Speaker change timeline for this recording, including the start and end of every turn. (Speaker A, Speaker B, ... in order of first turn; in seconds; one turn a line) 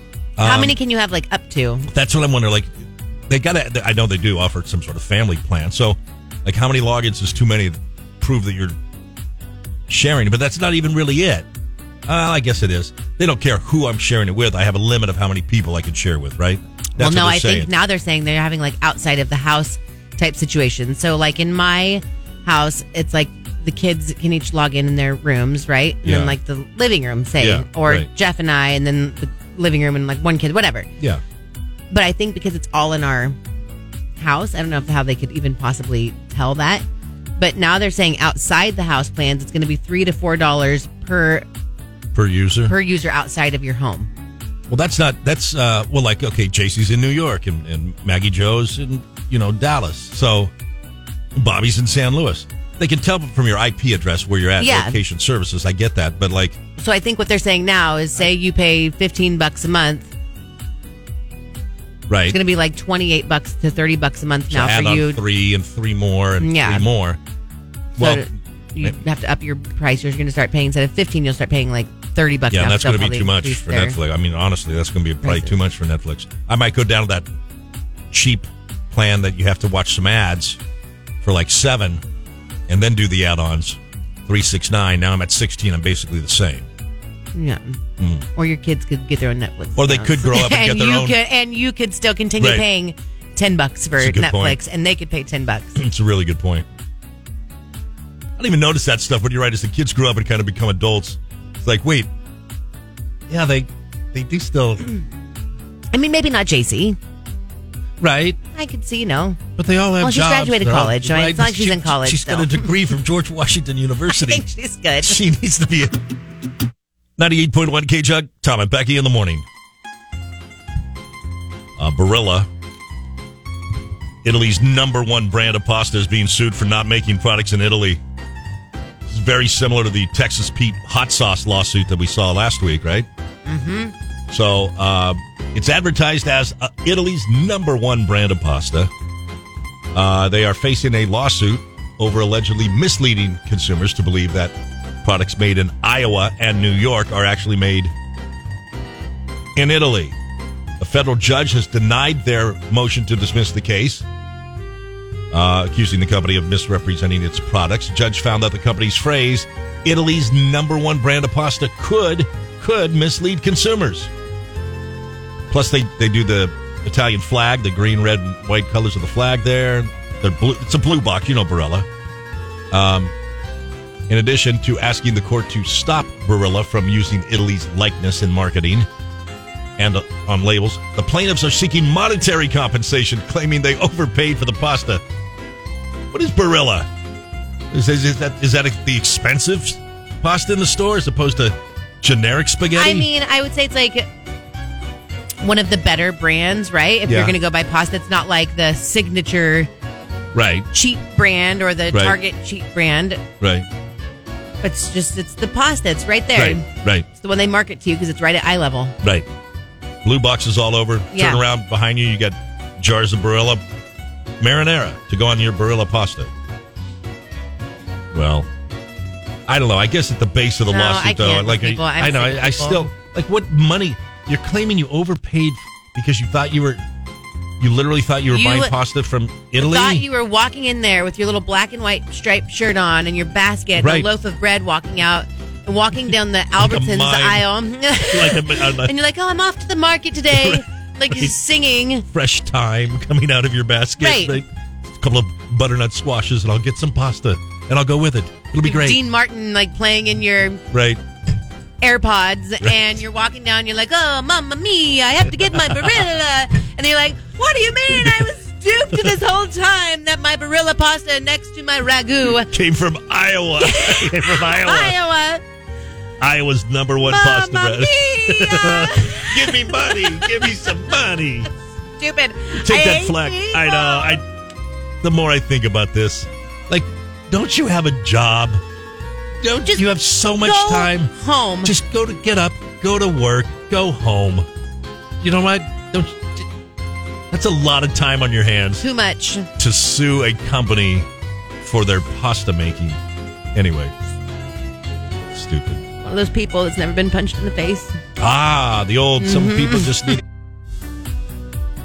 Speaker A: 0.4-0.8
Speaker B: 0.4-1.9
Speaker A: 1.9-2.7
Speaker A: 3.3-8.8
Speaker A: 9.9-11.4
Speaker A: 12.1-17.8
Speaker B: 17.0-30.9
Speaker A: 26.0-26.3
Speaker A: 27.4-28.1
Speaker B: 31.9-33.4
Speaker B: 34.2-36.8
Speaker B: 37.4-41.5
Speaker A: 42.1-42.8
Speaker B: 42.6-44.1
Speaker A: 44.7-50.5
Speaker A: 51.4-56.6
Speaker B: 54.6-55.0
Speaker B: 56.8-60.1
Speaker A: 62.1-62.4
Speaker B: 62.3-65.2
Speaker A: 64.5-67.2
Speaker B: 66.4-66.9
Speaker A: 68.0-68.3
Speaker B: 68.0-74.0
Speaker A: 72.5-77.2
Speaker B: 75.2-75.6
Speaker A: 78.1-80.6
Speaker A: 81.2-82.0
Speaker A: 82.7-86.7
Speaker B: 87.3-87.8
Speaker A: 88.0-88.2
Speaker B: 88.3-95.8
Speaker A: 89.8-91.2
Speaker A: 92.4-92.7
Speaker A: 94.0-94.6
Speaker A: 95.8-96.7
Speaker A: 98.4-102.1
Speaker A: 103.3-104.9
Speaker B: 105.9-107.0
Speaker A: 108.0-108.4
Speaker B: 108.5-109.4
Speaker A: 109.5-114.4
Speaker B: 110.0-112.7
Speaker B: 114.1-115.2
Speaker A: 115.0-116.0
Speaker A: 117.2-119.4
Speaker A: 121.8-122.5
Speaker A: 124.2-128.0
Speaker A: 129.1-133.1
Speaker B: 133.4-133.9
Speaker A: 134.3-138.9
Speaker A: 139.9-147.9
Speaker A: 149.6-150.1
Speaker A: 150.8-154.0
Speaker A: 155.3-164.1
Speaker A: 165.5-171.9
Speaker A: 172.7-173.1
Speaker A: 174.1-178.9
Speaker A: 179.8-185.0
Speaker A: 186.1-186.9
Speaker A: 187.7-193.1
Speaker B: 192.7-194.1
Speaker B: 195.4-199.7
Speaker A: 197.0-197.4
Speaker A: 200.3-200.7
Speaker B: 200.7-203.2
Speaker A: 201.9-202.2
Speaker A: 203.4-203.7
Speaker B: 204.6-208.9
Speaker A: 206.3-207.1
Speaker A: 210.0-213.6
Speaker B: 211.1-211.4
Speaker A: 214.4-216.3
Speaker A: 218.1-218.5
Speaker A: 219.5-226.8
Speaker B: 220.7-222.9
Speaker A: 227.6-230.1
Speaker B: 228.3-228.8
Speaker B: 229.5-242.1
Speaker A: 233.8-234.1
Speaker A: 236.6-238.9
Speaker A: 240.3-241.3
Speaker A: 242.1-249.0
Speaker B: 244.0-244.4
Speaker B: 248.6-250.6
Speaker A: 250.7-251.0
Speaker B: 251.8-262.5
Speaker A: 262.2-265.0
Speaker B: 263.6-265.4
Speaker A: 266.2-271.5
Speaker B: 267.0-270.4
Speaker B: 272.0-274.2
Speaker A: 272.6-274.2
Speaker A: 275.0-278.6
Speaker A: 279.4-281.1
Speaker B: 279.7-281.7
Speaker A: 281.6-284.4
Speaker A: 285.2-286.4
Speaker A: 287.3-288.8
Speaker B: 288.8-289.5
Speaker A: 289.6-291.1
Speaker A: 291.6-293.0
Speaker A: 293.5-293.9
Speaker A: 295.3-295.8
Speaker B: 296.0-297.9
Speaker A: 298.2-300.2
Speaker B: 299.2-300.1